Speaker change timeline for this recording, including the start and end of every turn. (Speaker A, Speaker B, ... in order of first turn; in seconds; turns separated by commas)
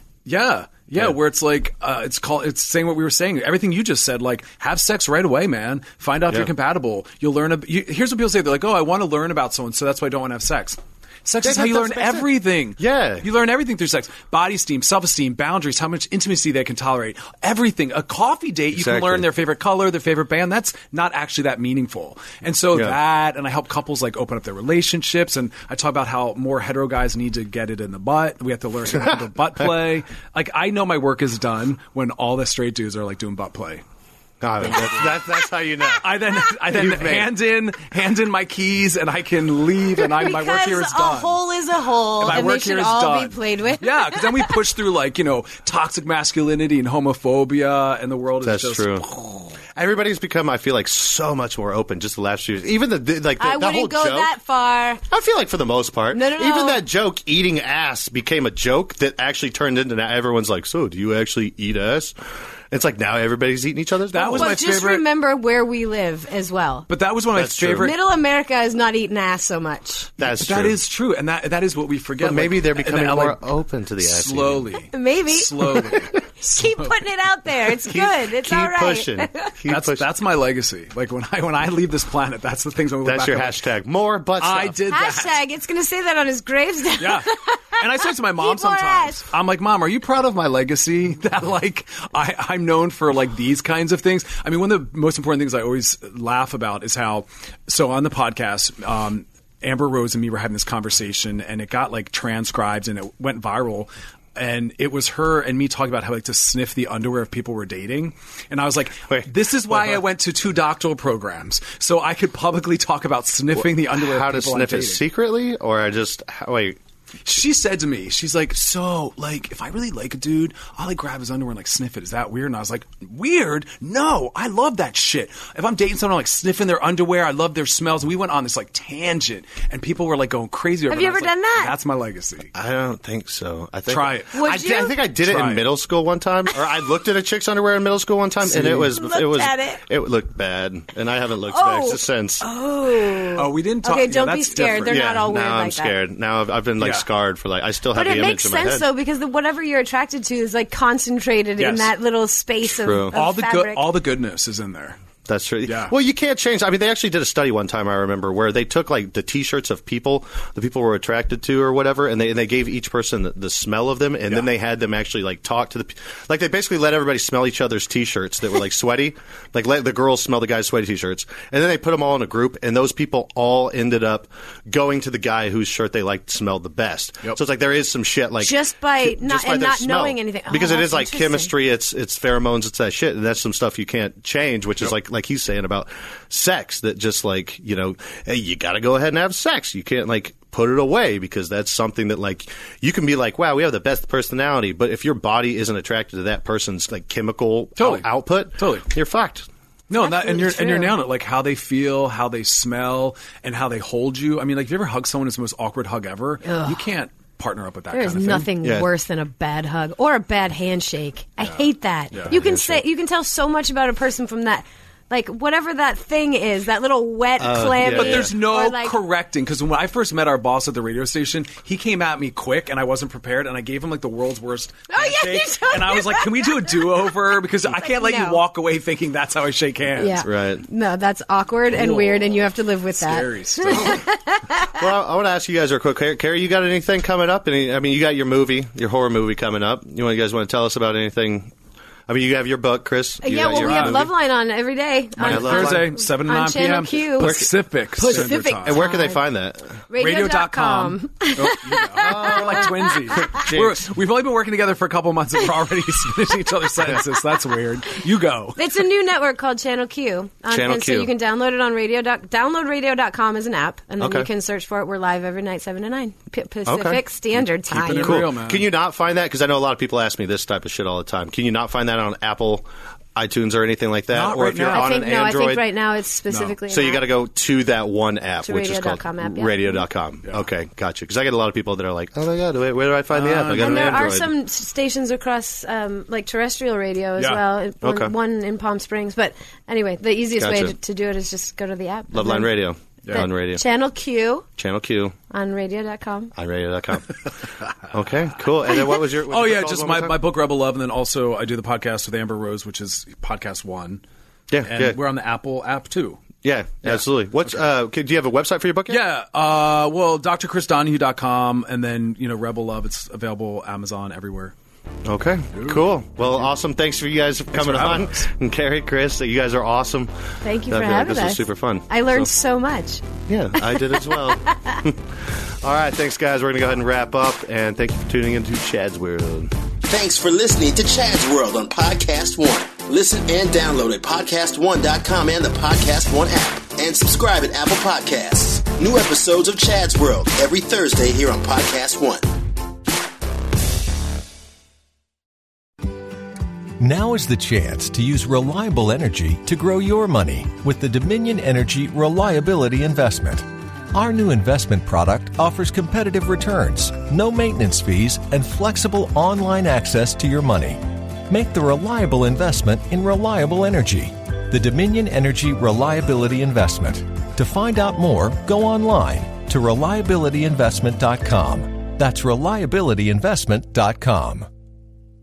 Speaker A: 0.3-33.8, Speaker B: 11.4-13.3, Speaker B: 18.7-19.3, Speaker B: 34.4-37.3, Speaker A: 34.6-35.2, Speaker A: 36.0-41.4, Speaker C: 40.0-44.5, Speaker A: 42.2-49.5, Speaker B: 48.4-49.1, Speaker B: 49.8-54.3, Speaker C: 53.4-55.0, Speaker B: 55.1-62.1, Speaker C: 56.1-56.8, Speaker B: 62.7-64.8, Speaker A: 64.1-65.1, Speaker C: 64.3-66.9, Speaker A: 66.9-68.0, Speaker B: 67.3-68.0, Speaker C: 67.8-70.1, Speaker B: 70.2-70.8, Speaker A: 70.2-73.5, Speaker B: 72.2-74.7, Speaker A: 74.0-77.0, Speaker C: 74.9-79.5, Speaker B: 77.8-80.1, Speaker A: 79.7-83.6, Speaker B: 83.0-84.8, Speaker A: 84.4-85.4, Speaker C: 84.9-89.3, Speaker A: 87.0-115.0, Speaker B: 113.6-116.8, Speaker A: 117.2-132.5, Speaker C: 130.9-131.7, Speaker B: 132.5-142.4, Speaker A: 133.9-134.3, Speaker C: 134.3-135.0, Speaker A: 135.2-135.7, Speaker A: 138.4-138.9, Speaker C: 138.9-139.8, Speaker C: 141.5-145.9, Speaker A: 143.4-145.1, Speaker B: 144.8-148.9, Speaker A: 146.8-147.1, Speaker C: 147.9-153.9, Speaker A: 151.6-151.9, Speaker B: 152.7-153.2, Speaker A: 153.1-155.0, Speaker B: 155.3-199.5, Speaker A: 155.7-155.9, Speaker C: 178.4-181.5, Speaker A: 197.8-198.9, Speaker A: 199.9-208.5, Speaker C: 199.9-201.0, Speaker C: 206.4-206.8, Speaker C: 207.9-219.0, Speaker B: 208.6-208.9, Speaker A: 211.4-212.3, Speaker B: 212.3-212.8, Speaker B: 217.4-218.3, Speaker A: 217.8-230.2, Speaker C: 224.9-227.1, Speaker C: 227.7-228.4, Speaker C: 230.0-234.9, Speaker B: 230.2-230.6, Speaker A: 231.7-234.0, Speaker B: 234.7-241.5, Speaker B: 242.1-244.1, Speaker C: 243.2-247.5, Speaker A: 243.4-244.1, Speaker A: 245.2-248.8, Speaker B: 245.2-246.0, Speaker B: 247.2-249.8, Speaker C: 248.0-249.2, Speaker C: 249.9-253.4, Speaker A: 250.0-258.6, Speaker B: 252.0-253.9, Speaker C: 258.6-268.3, Speaker B: 260.5-261.1, Speaker B: 264.0-264.3, Speaker B: 266.7-267.0, Speaker A: 267.7-268.7, Speaker B: 268.0-275.7, Speaker A: 274.1-275.0, Speaker C: 274.7-277.1, Speaker B: 276.7-284.3, Speaker C: 278.4-279.8, Speaker A: 283.1-284.2, Speaker C: 283.6-292.5, Speaker B: 287.8-288.1, Speaker B: 290.4-290.8, Speaker B: 292.1-293.6, Speaker C: 293.1-294.4, Speaker B: 294.6-295.1, Speaker C: 295.3-296.3, Speaker B: 296.3-297.1, Speaker B: 297.8-300.2, Speaker A: 299.1-304.0, Speaker B: 304.5-305.0, Speaker A: 304.6-306.3, Speaker B: 306.4-309.1, Speaker A: 306.9-307.7, Speaker A: 308.9-314.5, Speaker B: 315.1-320.1, Speaker A: 315.5-316.5, Speaker A: 317.5-318.3, Speaker C: 320.4-323.0, Speaker B: 320.7-321.9, Speaker B: 323.3-329.6, Speaker C: 323.6-324.8, Speaker D: 329.9-342.3, Speaker E: 346.8-374.5